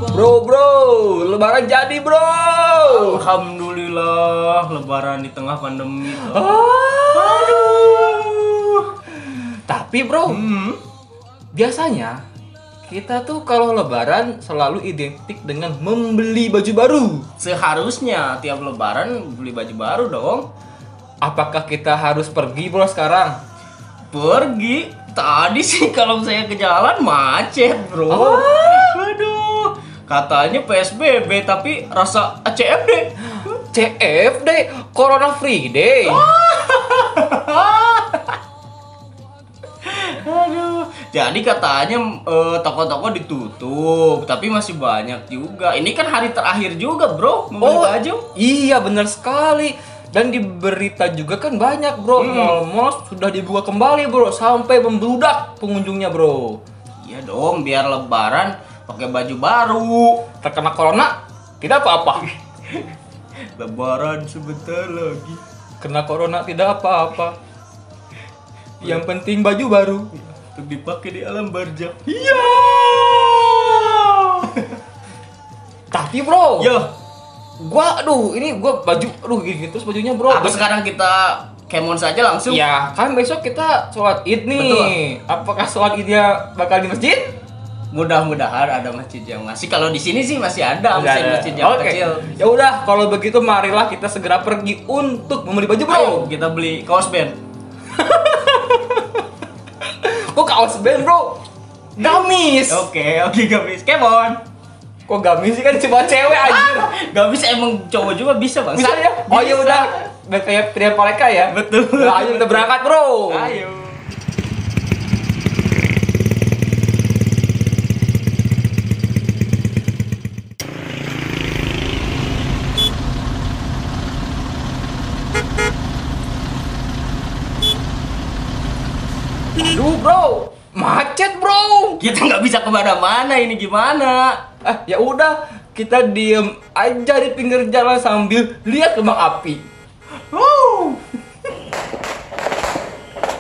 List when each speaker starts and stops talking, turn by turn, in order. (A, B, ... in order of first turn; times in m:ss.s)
0:00.1-0:03.2 A
0:02.9-0:06.6 B
0:06.1-0:07.8 A
0:07.1-0:08.9 B
0:09.2-0:10.4 A
0:10.3-0:10.8 B
0:11.5-0:12.2 A
0:12.9-0:17.3 A
0:17.4-0:20.5 B
0:21.2-0:23.4 A
0:24.1-0:33.1 B
0:28.1-0:29.0 A
0:33.6-0:36.3 A
0:36.1-0:38.4 B
0:39.8-0:48.3 B
0:47.6-0:56.6 A
0:52.2-0:52.6 B
0:57.0-1:00.3 B
1:00.3-1:02.2 A
1:02.6-1:02.9 B
1:03.6-1:05.4 B
1:05.8-1:07.4 A
1:08.8-1:10.1 A
1:10.4-1:14.8 B
1:12.3-1:12.6 A
1:15.9-1:16.7 A
1:16.6-1:16.9 B
1:17.6-1:20.6 A
1:20.3-1:22.6 B
1:22.5-1:27.3 A
1:24.6-1:25.0 B
1:27.9-1:32.2 B
1:30.9-1:36.3 A
1:35.9-1:37.4 B
1:37.9-1:39.2 A
1:39.8-1:41.4 A
1:42.0-1:42.9 A
1:42.7-1:44.4 B
1:45.1-1:46.9 A
1:46.3-1:49.9 B
1:48.8-1:53.6 A
1:51.5-1:52.6 B
1:53.3-1:54.1 B
2:09.6-2:12.0 A
2:12.0-2:14.4 B
2:14.6-2:19.6 A
2:20.3-2:21.0 B